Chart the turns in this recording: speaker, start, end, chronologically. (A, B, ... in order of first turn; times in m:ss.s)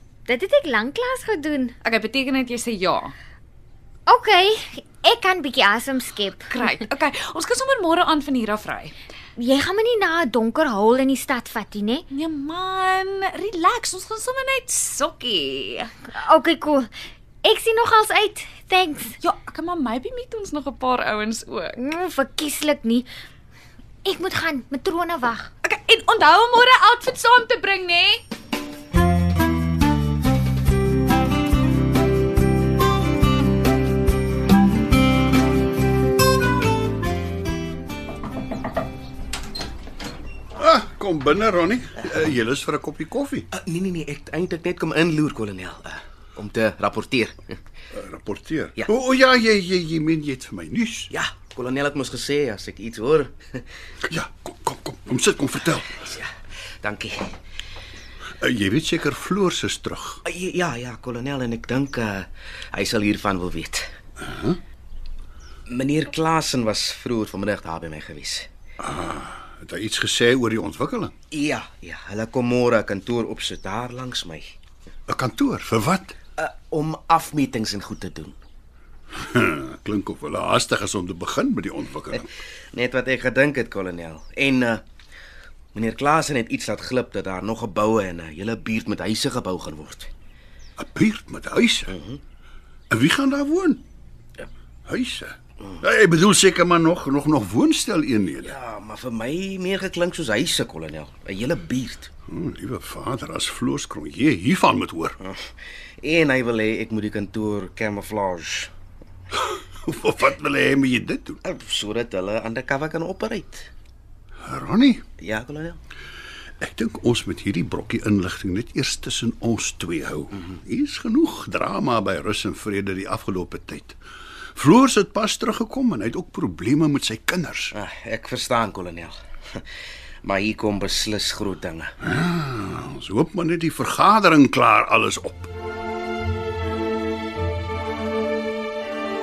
0:00.2-0:01.8 A
0:01.8-0:03.1 B
0:04.1-0:06.5 A
0:06.5-0:08.9 B
0:09.4-0:12.0 A
0:12.1-0:15.9 B
0:16.1-0:16.9 A
0:17.4-0:19.2 A
0:19.2-0:21.8 B
0:21.8-0:23.1 A
0:24.0-0:25.5 A
0:25.6-0:28.2 B
0:40.6-0:43.5 C
0:43.5-0:47.4 D
0:47.9-0:51.1 C
0:51.1-0:53.6 D
0:54.1-0:56.0 C
0:56.0-0:56.3 D
0:56.8-0:57.3 D
0:58.4-1:00.2 C
1:00.2-1:03.9 D
1:04.2-1:04.6 C
1:05.7-1:08.5 D
1:08.8-1:11.1 C
1:11.3-1:14.4 D
1:15.1-1:16.2 C
1:16.4-1:18.3 D
1:19.1-1:22.3 C
1:22.1-1:24.8 D
1:25.7-1:30.1 D
1:30.8-1:31.9 C
1:31.9-1:32.2 D
1:32.9-1:33.8 C
1:34.9-1:38.6 C
1:38.4-1:42.1 D
1:42.3-1:45.2 C
1:46.0-1:48.7 D
1:49.3-1:51.4 C
1:51.4-1:53.7 D
1:54.4-1:55.0 C
1:55.2-1:55.8 D
1:56.6-2:04.0 C
2:04.6-2:07.7 C
2:07.7-2:09.6 D
2:10.2-2:11.9 D
2:12.0-2:15.5 C